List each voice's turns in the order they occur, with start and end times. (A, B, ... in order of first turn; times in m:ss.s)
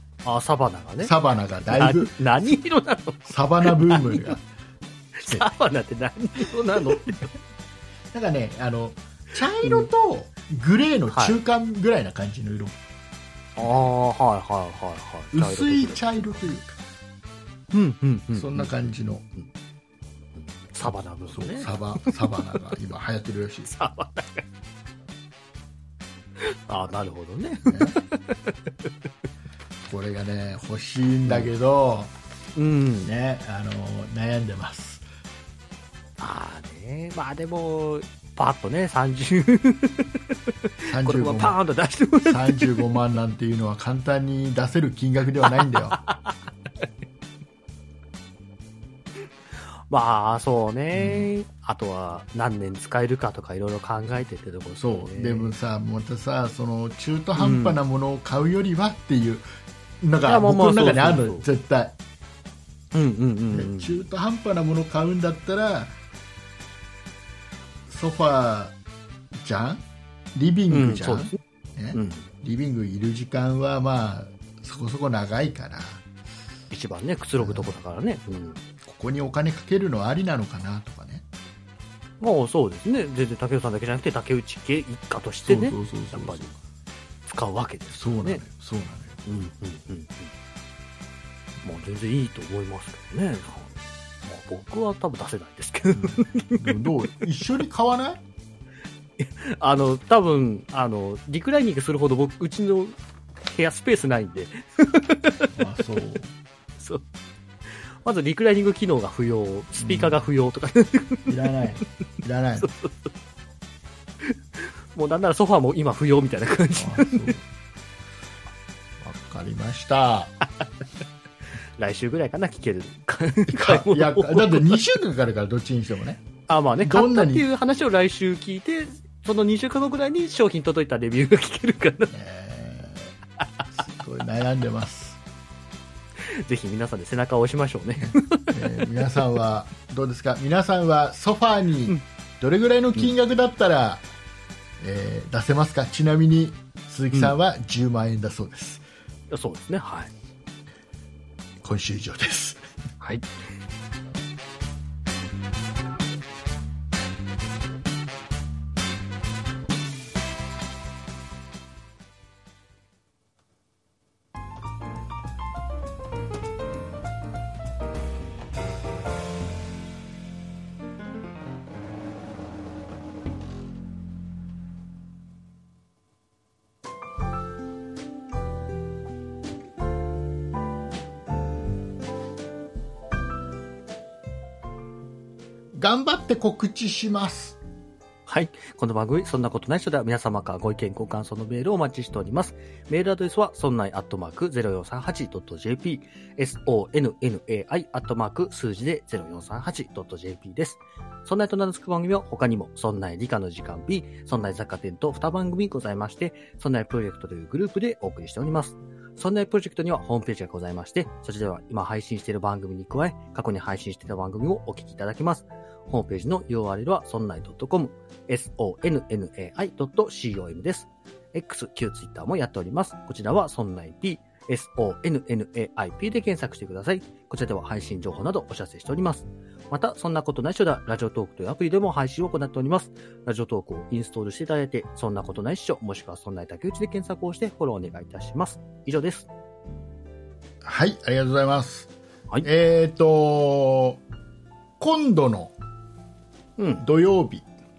0:00.2-0:01.2 A
0:01.0-0:02.3 B
0:01.7-0:04.4 A
0:03.2-0:04.4 B
0:05.2-0:07.3 A
0:06.7-0:07.1 B
0:08.1-0:12.8 B
0:11.1-0:11.4 A
0:13.6-0:16.6 A
0:15.3-0:16.8 B
0:17.7-0:18.7 A
0:18.3-0:19.2 B
0:20.7-0:22.4 A
0:21.3-0:23.7 B
0:23.7-0:24.4 A
0:26.4-0:28.9 A
0:27.6-0:28.0 B
0:29.8-0:32.1 B
0:32.6-0:33.1 A
0:33.0-0:35.0 B
0:36.2-0:42.8 A
0:40.8-0:41.6 B
0:42.2-0:46.0 B
0:45.4-0:46.3 A
0:49.9-0:55.5 A
0:50.9-0:51.3 B
0:54.8-0:59.4 B
0:57.4-0:57.8 A
1:00.0-1:02.0 B
1:00.2-1:01.4 A
1:02.9-1:04.0 A
1:03.5-1:05.9 B
1:07.9-1:08.7 B
1:09.3-1:16.0 B
1:10.7-1:11.4 A
1:11.9-1:12.3 A
1:16.7-1:18.6 A
1:17.4-1:17.8 B
1:18.8-1:21.2 B
1:22.2-1:26.6 A
1:25.4-1:26.5 B
1:27.2-1:28.4 A
1:27.9-1:29.2 B
1:29.2-1:30.3 A
1:31.6-1:33.7 A
1:34.2-1:36.9 A
1:35.9-1:38.2 B
1:39.2-1:45.5 A
1:45.5-1:46.3 B
1:46.8-1:47.0 A
1:48.0-1:51.4 A
1:49.7-1:50.2 B
1:51.3-1:52.7 B
1:52.6-1:53.1 A
1:54.2-1:57.3 A
1:56.8-1:57.4 B
1:59.0-2:00.3 B
2:01.8-2:04.9 A
2:03.5-2:06.2 B
2:06.5-2:12.1 A
2:06.8-2:07.4 B
2:12.1-2:13.1 B
2:13.7-2:15.2 B
2:16.2-2:18.9 A
2:18.0-2:24.0 B
2:24.8-2:28.8 B
2:29.3-2:30.1 A
2:31.6-2:32.6 B
2:33.0-2:33.3 A
3:05.7-3:07.6 B
3:08.3-3:59.3 A
4:00.6-4:01.9 B
4:02.4-4:04.0 B
4:04.8-4:05.5 B
4:06.6-4:06.8 A
4:06.8-4:07.4 B